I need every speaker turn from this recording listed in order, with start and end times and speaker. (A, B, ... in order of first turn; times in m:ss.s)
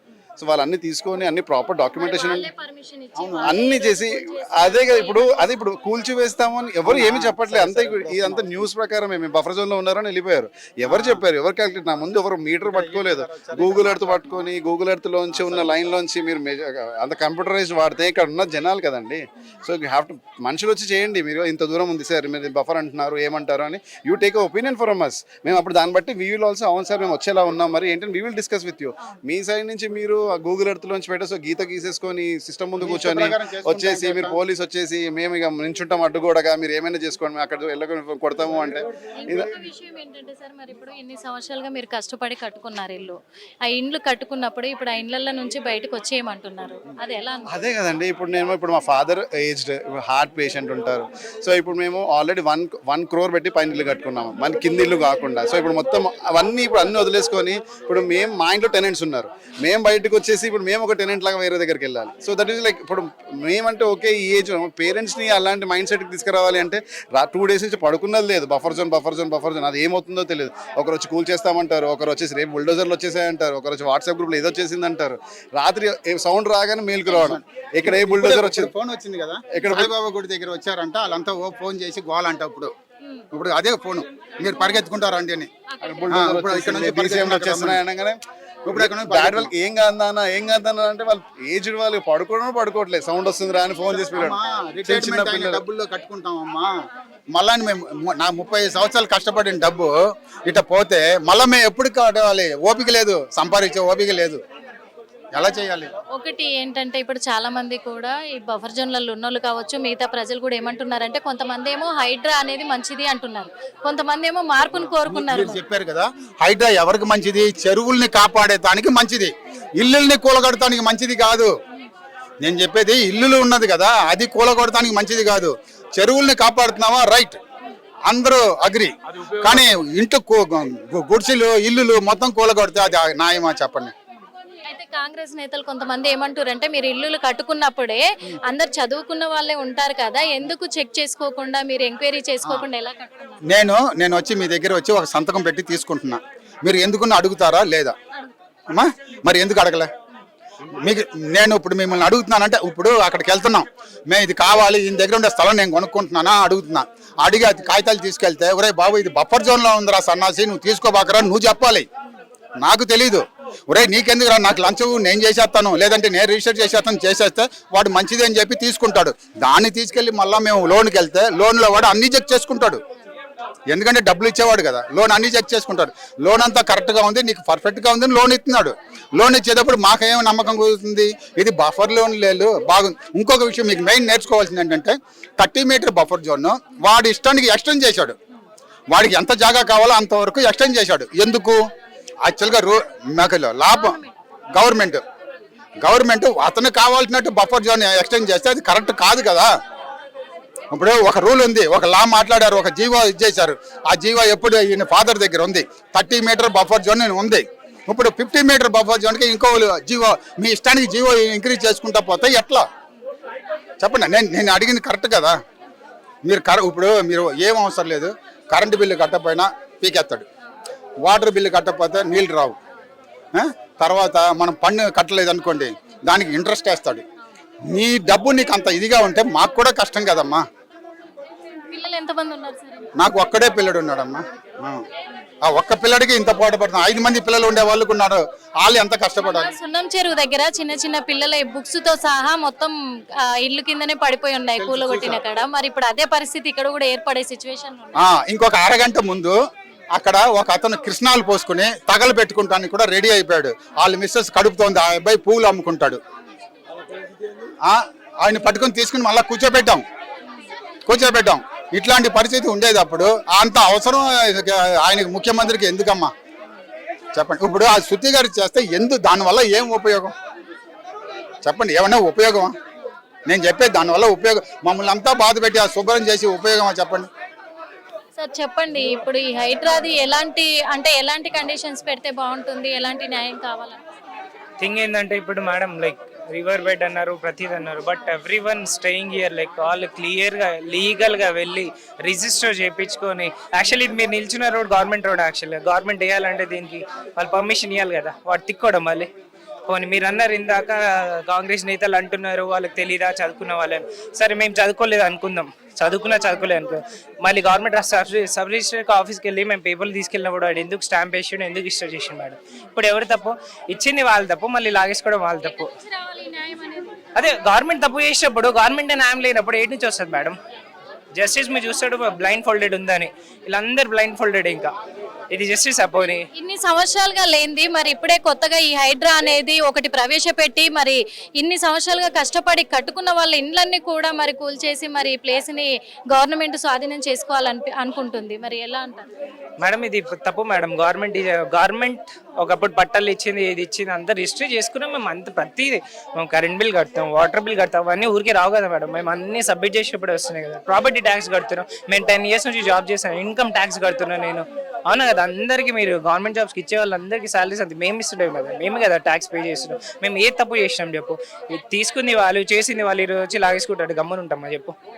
0:00.4-0:02.5 A
0:01.9-0:05.6 B
0:03.2-0:03.6 C
0:03.4-0:39.5 A
0:06.9-0:08.6 C
0:10.9-0:11.2 C
0:12.6-0:14.4 C
0:15.3-0:15.7 C
0:32.8-0:34.4 C
0:39.2-0:47.6 B
0:47.5-1:18.7 A
1:17.1-1:22.7 C
1:19.5-1:19.9 A
1:23.3-1:25.5 C
1:25.8-1:28.2 A
1:26.1-1:27.8 C
1:28.7-1:29.5 C
1:28.7-1:35.6 A
1:33.9-1:36.7 C
1:37.3-1:39.9 C
1:40.4-1:44.4 C
1:45.3-1:45.9 C
1:46.1-1:55.6 B
1:54.8-2:01.5 C
2:02.4-2:07.4 C
2:08.1-2:13.9 C
2:14.7-2:23.4 B
2:23.5-2:28.0 C
2:28.7-2:29.9 C
2:30.6-2:41.9 C
2:42.6-2:52.8 C
2:53.7-3:08.2 C
3:08.9-3:11.6 C
3:12.2-3:14.0 C
3:13.7-3:14.2 B
3:14.5-3:15.0 C
3:15.8-3:19.5 C
3:20.7-3:32.6 C
3:33.8-3:35.4 C
3:36.2-3:40.2 C
3:41.0-3:42.6 C
3:43.4-3:47.0 C
3:47.7-3:50.4 C
3:51.6-3:52.9 B
3:53.0-3:54.8 C
3:55.4-3:59.5 C
3:59.2-4:08.1 B
4:04.6-4:05.2 C
4:08.0-4:09.4 C
4:10.0-4:16.0 C
4:17.6-4:19.8 C
4:20.9-4:26.1 C
4:27.2-4:30.1 C
4:31.4-4:32.5 C
4:33.3-4:37.1 C
4:38.2-4:43.8 B
4:44.6-4:59.1 D
4:59.7-5:15.7 D
5:15.5-5:17.1 B
5:17.2-5:20.4 D
5:21.2-5:24.7 D
5:25.3-5:26.2 D
5:26.3-5:39.1 B
5:39.6-6:04.7 D